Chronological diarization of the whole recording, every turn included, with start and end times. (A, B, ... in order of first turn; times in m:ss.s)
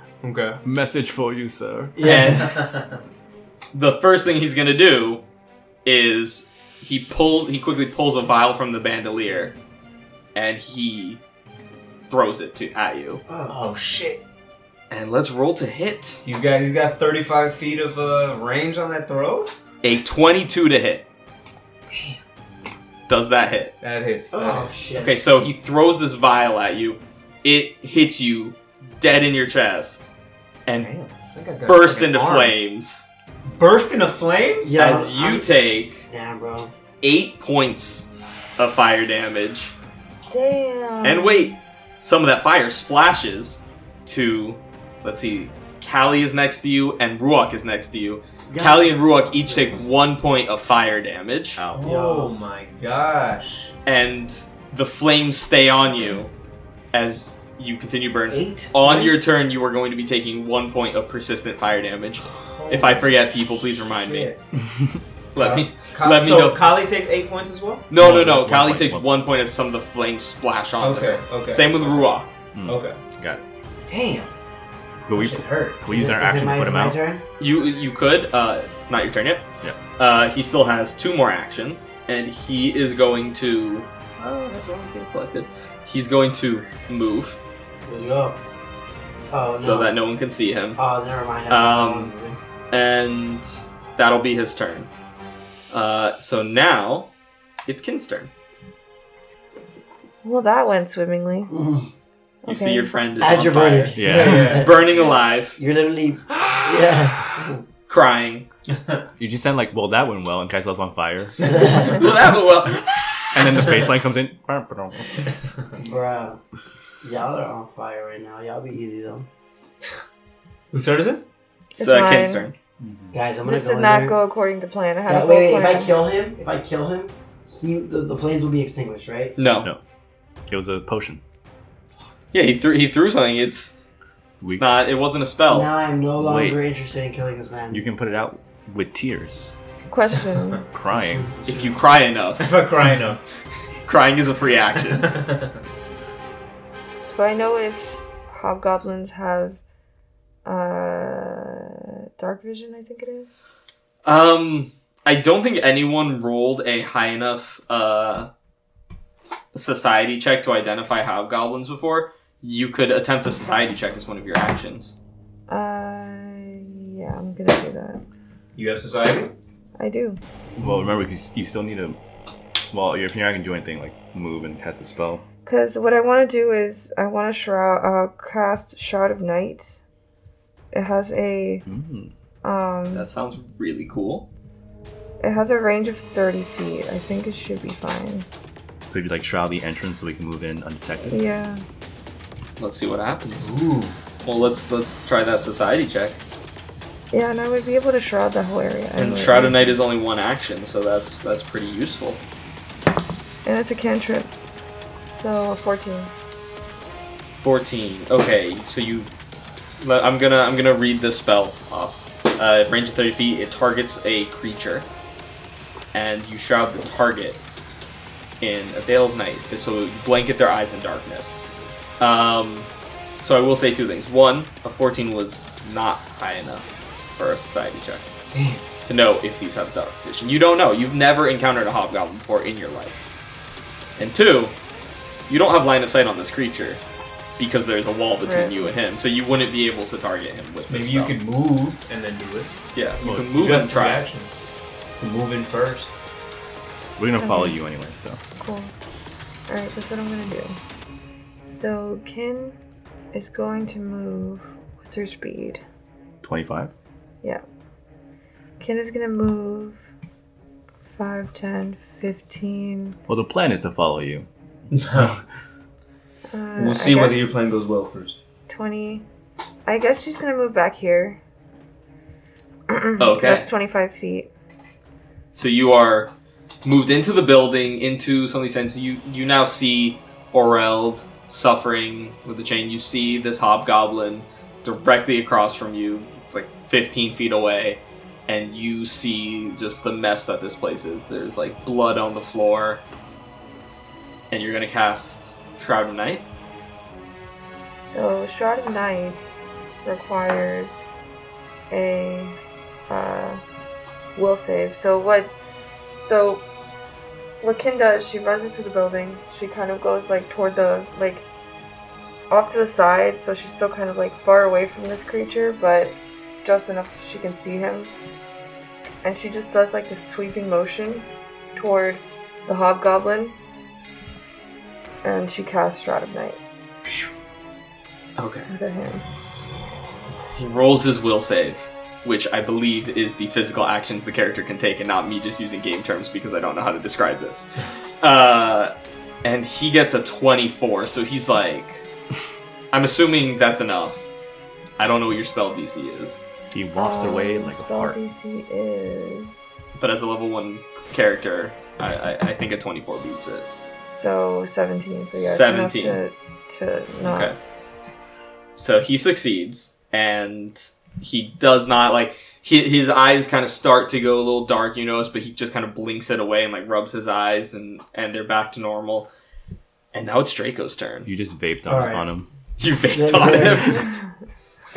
0:00.2-0:00.6 A
0:00.6-0:02.0 B
0:02.0-0:03.0 A
0:02.0-0:02.6 C
0:03.7-0:05.2 C
0:05.8-0:09.6 C
0:10.4-0:11.2 C
0:12.1-0:13.2 C
0:13.3-0:13.6 D
0:13.5-0:14.2 A
0:14.9-0:16.2 C
0:16.2-0:19.5 A
0:19.8-0:21.1 C
0:21.9-0:22.2 A
0:23.1-0:23.7 C
0:23.8-0:24.7 A
0:24.3-0:25.3 D
0:24.9-0:30.1 C
0:30.7-0:32.6 A
0:31.7-0:33.1 C
0:33.4-0:34.9 A
0:34.6-0:35.5 D
0:34.8-0:36.1 C
0:36.1-0:36.7 D
0:37.0-0:39.7 C
0:40.3-0:41.6 E
0:41.0-0:51.6 C
0:48.5-0:49.8 D
0:51.6-0:51.9 B
0:51.7-0:53.7 A
0:51.8-0:52.3 D
0:53.9-0:56.3 C
0:56.9-1:04.3 C
0:58.3-0:59.3 A
1:02.3-1:03.1 A
1:04.0-1:04.5 A
1:05.4-1:06.7 C
1:05.4-1:07.9 A
1:07.9-1:12.3 C
1:08.0-1:09.1 B
1:10.8-1:12.1 A
1:12.5-1:13.4 B
1:12.7-1:13.0 A
1:13.9-1:14.3 A
1:15.0-1:17.0 B
1:15.1-1:15.8 A
1:15.9-1:17.2 D
1:17.4-1:19.5 C
1:20.0-1:27.4 C
1:27.9-1:28.4 D
1:29.3-1:30.0 D
1:29.5-1:30.8 C
1:30.8-1:32.4 D
1:31.5-1:32.1 C
1:32.7-1:34.9 C
1:35.7-1:37.1 C
1:37.7-1:38.3 C
1:40.2-1:41.5 E
1:41.5-1:41.9 D
1:42.4-1:43.0 E
1:42.5-1:45.6 C
1:43.2-1:47.6 D
1:44.0-1:44.6 B
1:44.0-1:45.0 A
1:47.9-1:48.5 C
1:48.7-1:49.0 A
1:49.2-1:51.9 B
1:51.5-1:52.0 D
1:51.8-1:53.7 C
1:53.3-1:55.3 B
1:55.8-1:56.4 D
1:57.0-1:59.3 D
2:00.7-2:01.2 A
2:01.8-2:02.5 E
2:01.8-2:02.6 C
2:02.8-2:03.1 A
2:03.1-2:04.2 D
2:03.4-2:05.9 E
2:05.1-2:09.4 D
2:09.4-2:09.7 C
2:10.5-2:11.2 B
2:12.3-2:13.8 C
2:14.4-2:14.7 B
2:14.5-2:15.7 C
2:15.5-2:17.8 D
2:16.2-2:16.6 B
2:17.7-2:19.6 B
2:19.9-2:20.6 E
2:20.7-2:21.3 B
2:20.9-2:21.8 D
2:21.5-2:22.5 C
2:22.4-2:23.2 A
2:23.9-2:25.1 C
2:24.9-2:25.6 A
2:27.1-2:29.6 E
2:30.4-2:33.3 E
2:34.0-2:38.3 C
2:39.5-2:45.0 C
2:45.5-2:48.0 E
2:48.6-2:49.3 A
2:49.8-2:50.2 E
2:50.6-2:52.0 B
2:52.7-2:55.2 B
2:55.5-2:59.8 E
3:00.7-3:01.6 E
3:01.7-3:02.1 B
3:02.4-3:03.1 E
3:02.9-3:04.3 C
3:05.2-3:08.3 E
3:08.9-3:11.2 B
3:11.1-3:11.6 E
3:12.6-3:13.6 C
3:13.4-3:14.0 A
3:14.2-3:16.2 C
3:17.1-3:19.8 E
3:19.0-3:22.2 C
3:23.4-3:24.3 E
3:25.1-3:26.1 E
3:27.4-3:29.1 C
3:29.8-3:34.9 C
3:35.9-3:37.4 C
3:38.4-3:41.4 C
3:42.0-3:42.7 C
3:43.2-3:48.0 C
3:48.3-3:48.6 A
3:48.8-3:53.0 C
3:54.0-3:54.6 C
3:55.3-3:56.8 C
3:57.4-4:01.2 C
3:58.2-3:58.7 E
4:00.7-4:04.4 A
4:02.7-4:04.1 C
4:03.0-4:03.3 B
4:05.0-4:06.0 A
4:07.0-4:08.2 B
4:07.2-4:07.6 E
4:08.4-4:08.7 E
4:09.5-4:10.6 E
4:11.5-4:12.6 E
4:13.1-4:15.6 E
4:16.2-4:16.7 B
4:18.6-4:19.8 E
4:20.9-4:23.0 E
4:23.1-4:24.3 B
4:24.7-4:25.2 A
4:26.3-4:27.3 E
4:26.6-4:28.2 A
4:28.5-4:29.0 E
4:29.7-4:31.2 E
4:32.7-4:34.3 E
4:33.0-4:33.5 C
4:35.3-4:36.1 C
4:36.6-4:52.8 C
4:54.3-4:56.2 C
4:57.8-5:00.9 E
5:01.7-5:02.4 E
5:02.9-5:03.4 E
5:04.2-5:05.3 E
5:06.0-5:06.4 E
5:07.4-5:11.2 E
5:12.3-5:17.9 E
5:19.0-5:23.4 E
5:25.0-5:26.4 E
5:28.2-5:28.5 C
5:28.5-5:29.2 E
5:30.4-5:37.5 C
5:38.0-5:38.7 C
5:39.2-5:41.8 C
5:42.7-5:44.0 C
5:44.8-5:46.2 C
5:46.5-5:48.0 B
5:46.8-5:49.5 E
5:49.8-5:53.5 C
5:53.9-5:57.3 E
5:55.1-5:56.0 C
5:57.0-5:57.4 C
5:58.6-6:09.1 C
6:09.9-6:11.1 C
6:11.0-6:12.3 B
6:11.7-6:12.0 D
6:12.6-6:13.9 C
6:12.9-6:13.9 D